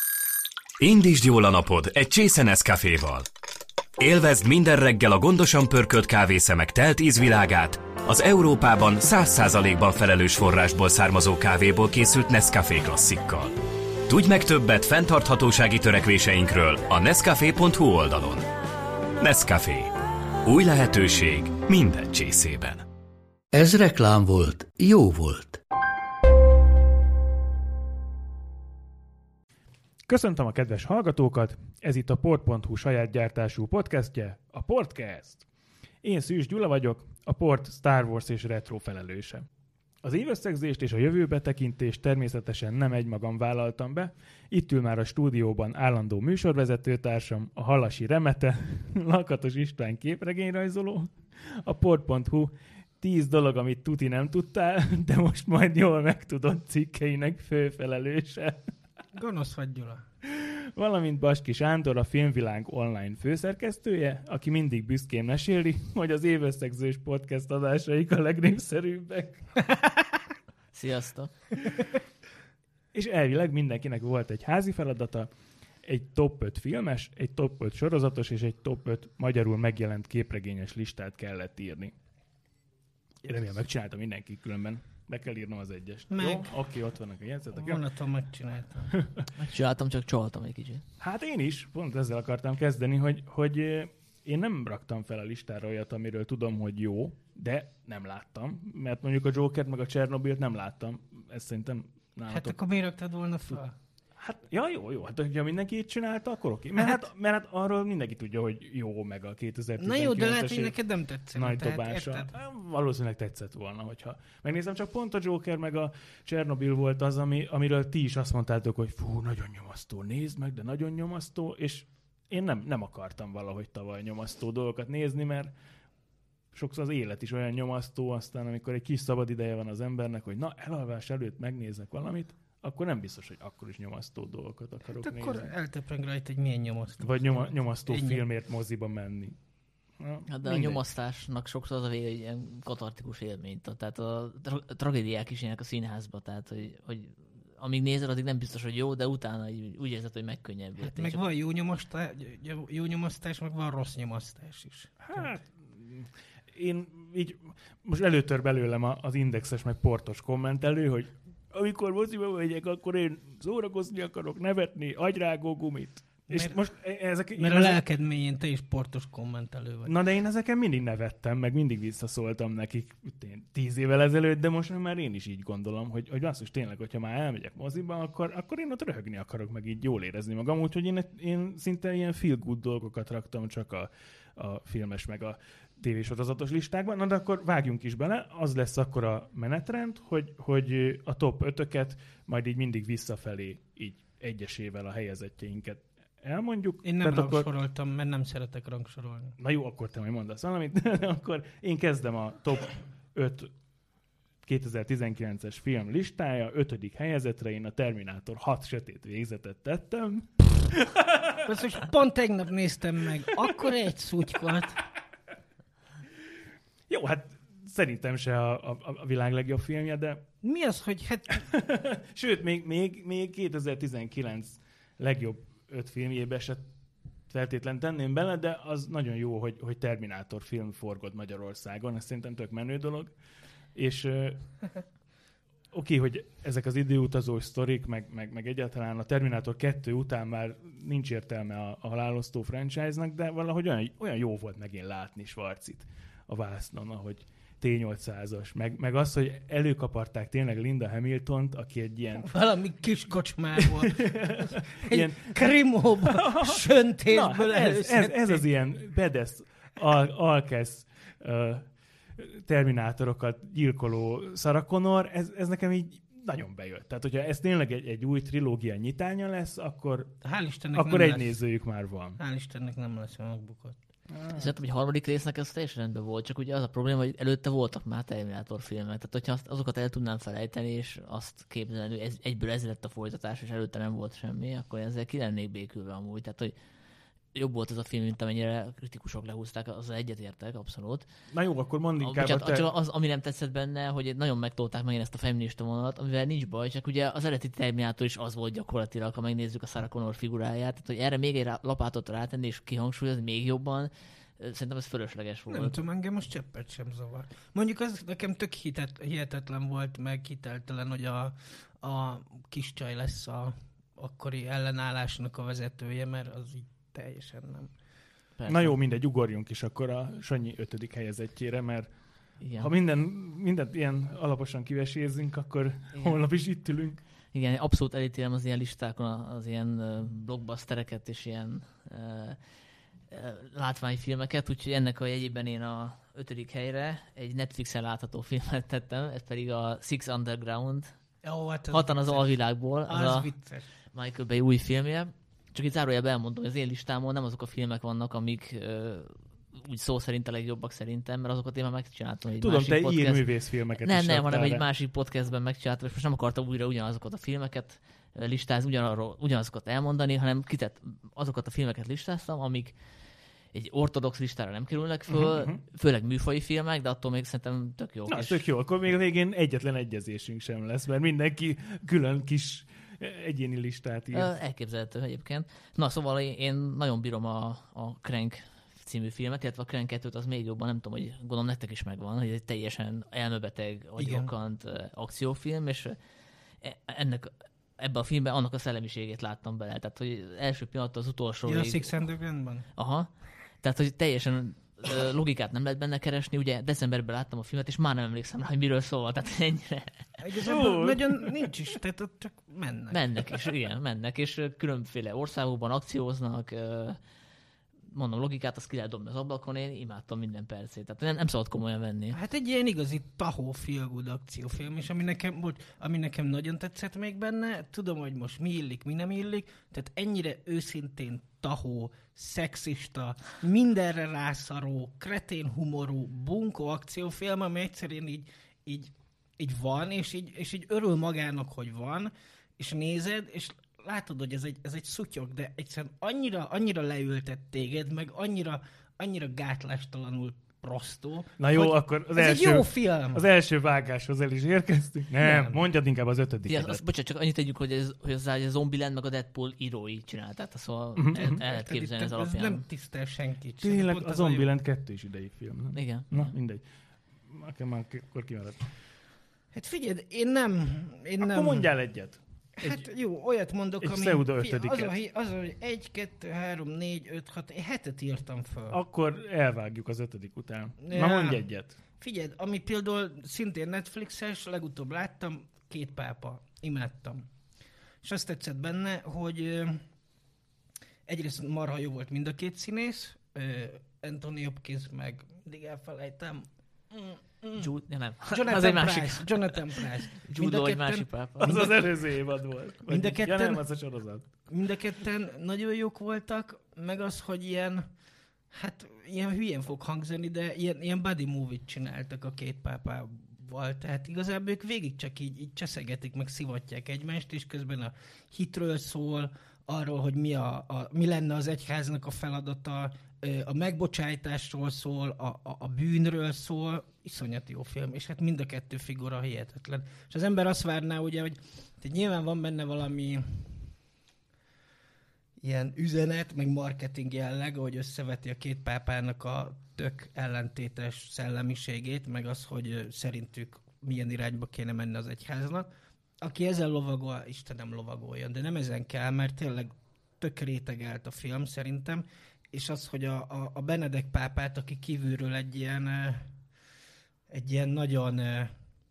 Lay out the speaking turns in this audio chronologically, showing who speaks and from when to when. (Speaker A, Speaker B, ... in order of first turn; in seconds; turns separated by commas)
Speaker A: 0.8-3.3, Speaker A: 4.0-13.5, Speaker A: 14.1-18.5, Speaker A: 19.2-19.9, Speaker A: 20.4-22.9, Speaker B: 23.5-25.6, Speaker C: 30.1-35.5, Speaker C: 36.0-39.5, Speaker C: 40.0-58.7, Speaker D: 59.1-60.0, Speaker C: 60.2-69.4, Speaker E: 70.7-71.3, Speaker C: 72.9-75.3, Speaker C: 75.8-81.9, Speaker C: 83.2-87.8, Speaker D: 86.1-86.5, Speaker D: 87.5-88.9, Speaker C: 88.9-89.2, Speaker E: 89.4-90.8, Speaker C: 91.0-102.5, Speaker D: 102.3-103.8, Speaker C: 104.2-110.7, Speaker D: 109.8-112.3, Speaker C: 111.3-125.5, Speaker C: 126.5-135.5, Speaker D: 134.9-138.2, Speaker C: 137.0-139.4, Speaker C: 140.0-140.8, Speaker E: 140.3-151.2, Speaker D: 150.8-155.0, Speaker C: 155.0-167.8, Speaker D: 166.3-166.6, Speaker D: 167.4-169.9, Speaker C: 169.9-197.5, Speaker D: 196.8-199.3, Speaker C: 199.4-203.5, Speaker C: 204.4-211.6, Speaker D: 211.4-214.8, Speaker C: 216.9-220.2, Speaker D: 220.4-221.5, Speaker C: 221.4-226.7, Speaker C: 227.3-233.1, Speaker C: 233.8-234.4, Speaker C: 235.7-252.3, Speaker D: 252.2-258.4, Speaker C: 253.6-261.7, Speaker C: 262.2-270.1, Speaker D: 270.2-271.3, Speaker C: 270.8-272.2, Speaker D: 272.2-273.8, Speaker C: 274.1-274.5, Speaker E: 274.3-286.5, Speaker E: 287.3-291.1, Speaker C: 291.3-292.7, Speaker E: 292.0-305.8, Speaker D: 305.5-317.7, Speaker E: 318.4-318.7, Speaker C: 318.4-321.9, Speaker E: 322.4-322.7, Speaker C: 322.6-327.0, Speaker E: 327.3-332.4, Speaker E: 333.1-340.9, Speaker D: 341.2-342.3, Speaker E: 341.7-343.3, Speaker D: 342.9-343.7, Speaker E: 343.9-362.7, Speaker C: 352.4-354.6, Speaker E: 363.5-368.4, Speaker C: 365.1-365.6, Speaker C: 368.1-374.3, Speaker E: 374.1-386.0, Speaker D: 384.0-384.3, Speaker E: 386.6-392.0, Speaker D: 391.5-392.7, Speaker E: 392.8-393.1, Speaker E: 393.6-400.0, Speaker D: 400.2-403.4, Speaker C: 400.4-401.5, Speaker E: 402.9-407.0, Speaker E: 407.9-412.2, Speaker D: 412.1-443.2, Speaker C: 441.4-446.8, Speaker D: 445.2-445.6, Speaker E: 446.5-452.6, Speaker C: 451.0-451.4, Speaker D: 451.3-454.5, Speaker C: 453.6-456.6, Speaker E: 455.7-456.3, Speaker C: 457.3-458.7, Speaker D: 459.5-461.7, Speaker C: 461.2-462.9, Speaker D: 462.6-468.8, Speaker C: 463.8-464.9, Speaker C: 468.7-471.8, Speaker D: 470.8-471.4, Speaker D: 472.0-477.2, Speaker D: 478.0-479.8, Speaker D: 481.1-487.7, Speaker E: 487.6-491.8, Speaker D: 488.3-491.6, Speaker C: 491.4-494.2, Speaker D: 492.9-493.6, Speaker D: 494.5-497.9, Speaker D: 498.5-523.6, Speaker D: 525.4-535.7, Speaker D: 536.2-546.3, Speaker D: 547.3-548.5